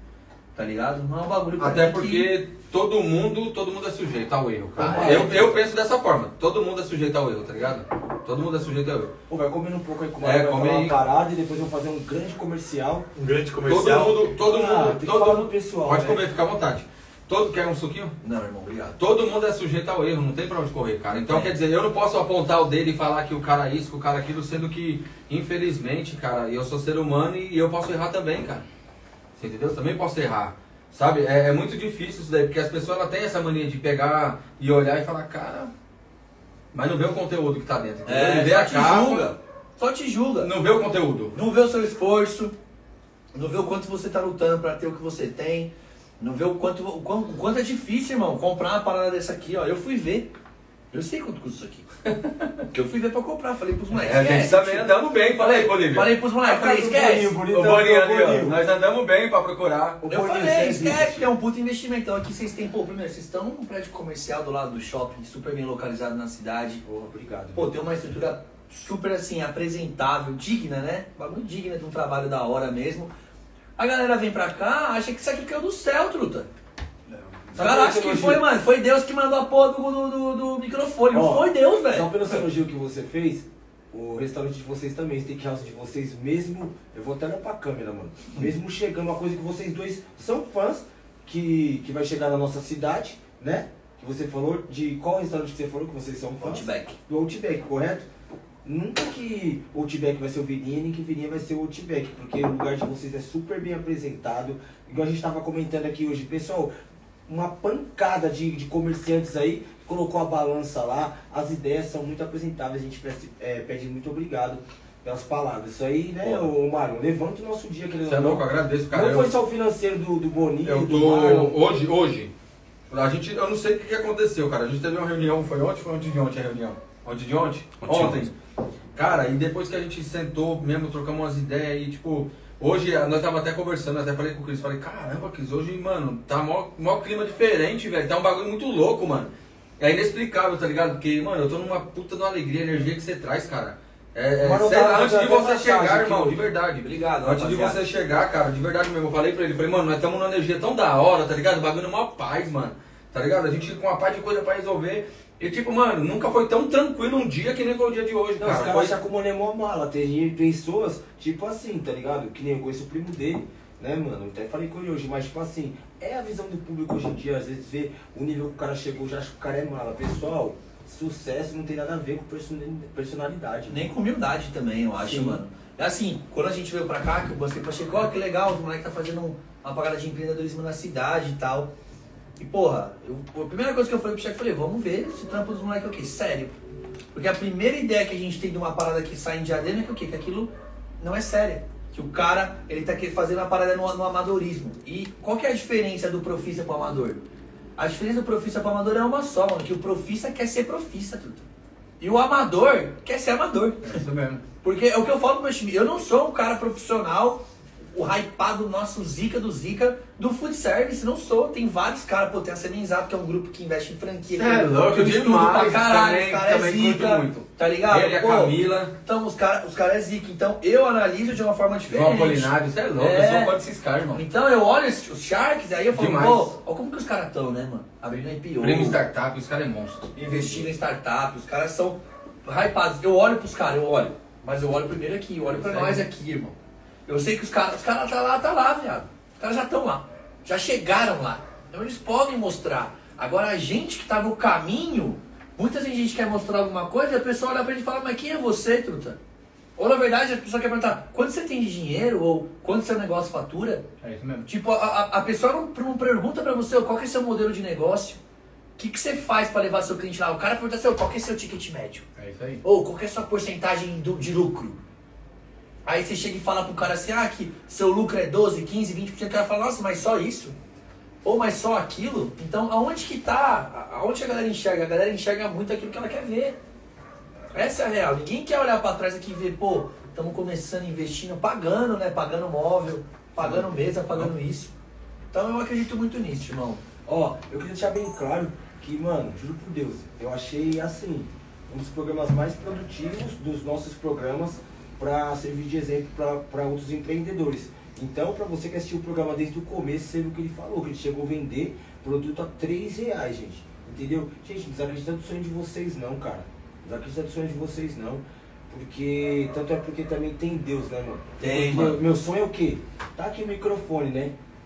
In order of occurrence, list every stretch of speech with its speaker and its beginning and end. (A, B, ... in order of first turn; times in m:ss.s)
0:00.6-0:02.3 A
0:01.6-0:09.1 B
0:04.8-0:05.6 C
0:04.8-0:05.5 A
0:09.3-0:13.1 C
0:10.2-0:10.9 B
0:13.1-0:14.3 A
0:13.7-0:18.1 B
0:14.4-0:16.2 C
0:18.2-0:19.0 A
0:19.0-0:28.6 B
0:21.3-0:21.5 A
0:29.4-0:35.7 B
0:36.7-0:39.3 B
0:38.0-0:40.5 A
0:40.4-0:41.3 B
0:41.3-0:42.5 A
0:43.3-0:50.3 A
0:50.9-0:51.9 A
0:52.7-0:57.4 A
0:53.9-0:56.1 B
0:56.4-0:58.6 C
0:57.5-1:00.0 B
1:00.0-1:01.2 C
1:00.1-1:06.8 A
1:06.8-1:07.7 C
1:07.5-1:13.1 A
1:13.8-1:16.5 A
1:17.1-1:18.4 C
1:17.6-1:22.1 A
1:21.1-1:38.1 C
1:36.4-1:37.0 A
1:38.6-1:46.7 C
1:47.2-2:01.8 C
1:56.2-1:56.5 B
1:58.0-1:59.3 B
2:00.6-2:02.3 B
2:02.9-2:08.3 B
2:07.8-2:08.3 A
2:09.0-2:39.0 B
2:24.4-2:26.4 C
2:26.8-2:27.8 A
2:38.4-2:53.8 C
2:53.7-3:01.7 A
2:55.0-2:55.4 C
3:02.4-3:06.6 A
3:07.1-3:17.2 A
3:17.8-3:21.4 A
3:22.0-3:24.0 A
3:23.8-3:24.4 B
3:24.6-3:43.6 A
3:34.3-3:38.9 B
3:41.9-3:44.2 B
3:44.1-3:49.0 A
3:45.9-3:46.5 B
3:48.6-3:50.7 B
3:50.2-4:09.2 A
3:55.5-3:56.0 B
4:09.8-4:13.8 A
4:14.0-4:14.4 B
4:14.4-4:18.2 A
4:18.8-4:22.1 A
4:22.2-4:22.6 B
4:22.6-4:24.8 A
4:25.8-4:30.5 A
4:31.2-4:36.6 A
4:37.5-4:44.7 A
4:43.4-4:44.3 B
4:45.3-4:46.8 A
4:47.0-5:14.3 C
5:11.4-5:12.0 A